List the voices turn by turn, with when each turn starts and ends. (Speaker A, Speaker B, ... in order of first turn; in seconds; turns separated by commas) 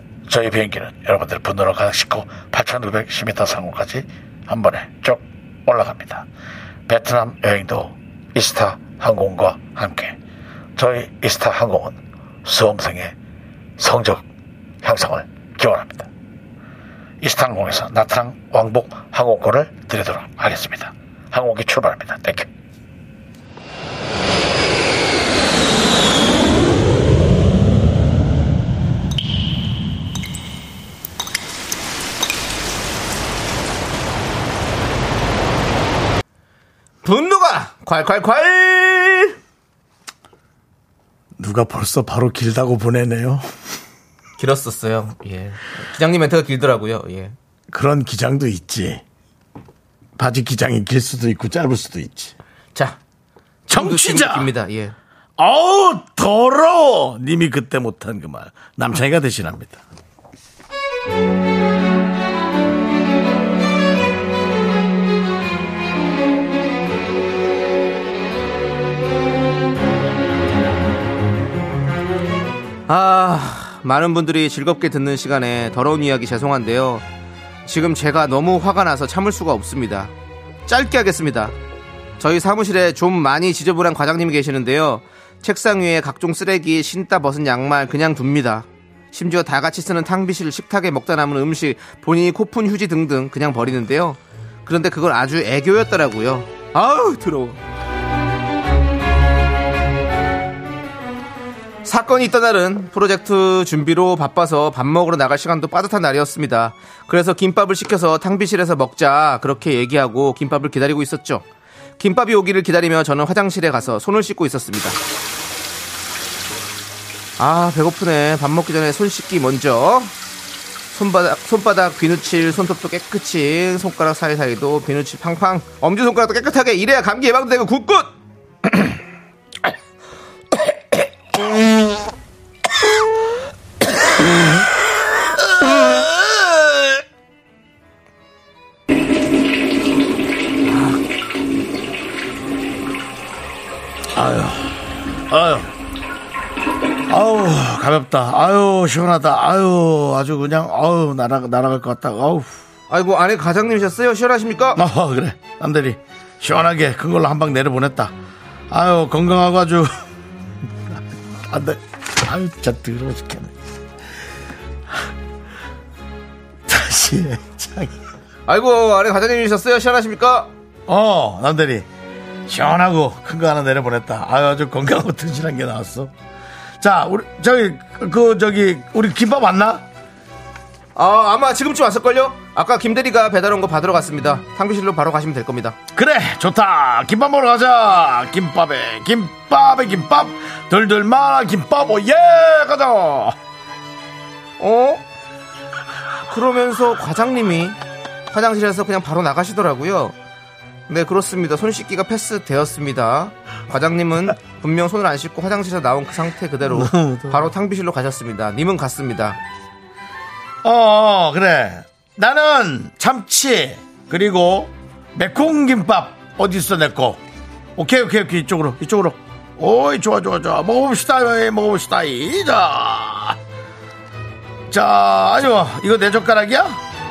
Speaker A: 0.3-6.3, Speaker A: 6.9-10.2, Speaker A: 10.8-13.1, Speaker A: 13.8-14.2, Speaker A: 14.8-16.1, Speaker A: 17.2-22.5, Speaker B: 37.0-39.4, Speaker C: 41.4-43.5, Speaker B: 44.4-47.3, Speaker C: 47.7-49.0, Speaker C: 50.2-52.4, Speaker B: 53.7-55.0, Speaker C: 53.7-54.5, Speaker C: 55.4-59.8, Speaker B: 72.9-77.0, Speaker B: 77.7-80.1, Speaker B: 80.7-81.5, Speaker B: 82.2-97.6, Speaker B: 101.8-111.5, Speaker B: 112.0-115.0, Speaker B: 117.4-120.1, Speaker B: 120.9-128.1, Speaker C: 144.1-145.7, Speaker C: 147.1-152.6, Speaker B: 152.9-154.8, Speaker C: 154.8-158.1, Speaker C: 158.7-160.0, Speaker C: 160.9-163.6, Speaker C: 166.7-168.0, Speaker B: 168.5-170.5, Speaker C: 170.9-171.9, Speaker C: 172.5-176.1, Speaker C: 176.8-179.8, Speaker B: 181.0-185.8, Speaker C: 185.9-193.4, Speaker B: 194.6-195.0, Speaker B: 196.3-197.8, Speaker B: 198.3-200.2, Speaker B: 200.9-209.4, Speaker C: 206.7-207.5, Speaker C: 210.6-217.2, Speaker C: 217.8-223.4, Speaker C: 224.7-226.8